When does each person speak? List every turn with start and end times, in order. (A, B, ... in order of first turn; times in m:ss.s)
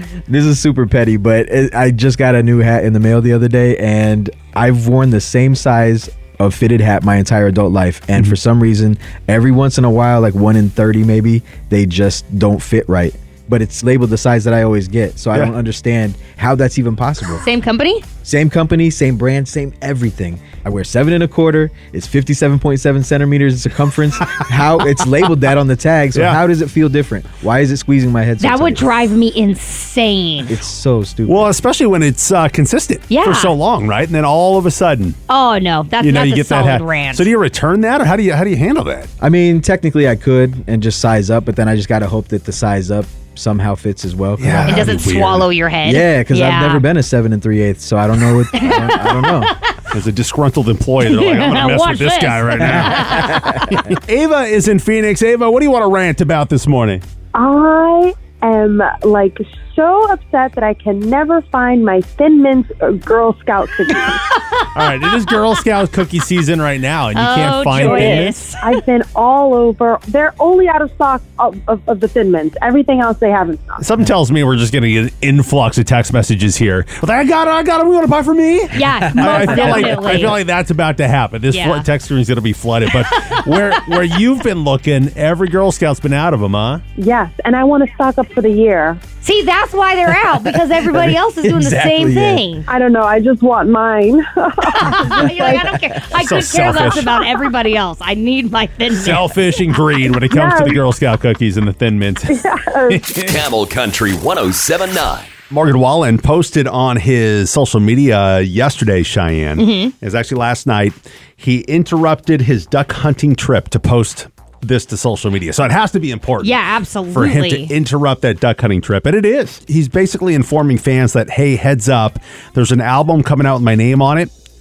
0:00.3-0:17.4 A
0:17.4-0:18.0 B
0:18.2-0:28.9 A
0:26.1-0:26.4 C
0:28.4-0:30.5 B
0:30.4-0:31.5 A
0:31.2-0:35.2 C
0:33.1-0:33.5 B
0:35.3-0:37.3 B
0:36.0-0:39.1 C
0:39.2-0:44.8 A
0:44.4-0:45.5 C
0:44.6-0:46.8 B
0:45.8-0:49.5 A
0:48.5-0:49.7 B
0:49.9-0:57.0 C
0:51.0-0:53.7 B
0:52.9-0:53.8 A
0:57.3-1:04.2 D
1:04.3-1:05.1 B
1:04.7-1:08.5 C
1:07.1-1:08.7 B
1:08.6-1:13.8 D
1:13.8-1:26.8 C
1:18.7-1:20.4 B
1:21.5-1:21.8 B
1:23.0-1:24.0 B
1:27.0-1:29.0 D
1:29.2-1:32.7 B
1:30.8-1:32.4 A
1:32.7-1:35.8 D
1:34.8-1:39.4 B
1:36.1-1:37.2 C
1:38.9-1:43.4 C
1:40.0-1:40.8 D
1:42.3-1:43.0 D
1:43.2-1:45.4 E
1:45.5-1:56.6 C
1:49.6-1:49.9 B
1:56.4-1:57.7 B
1:57.1-2:04.3 C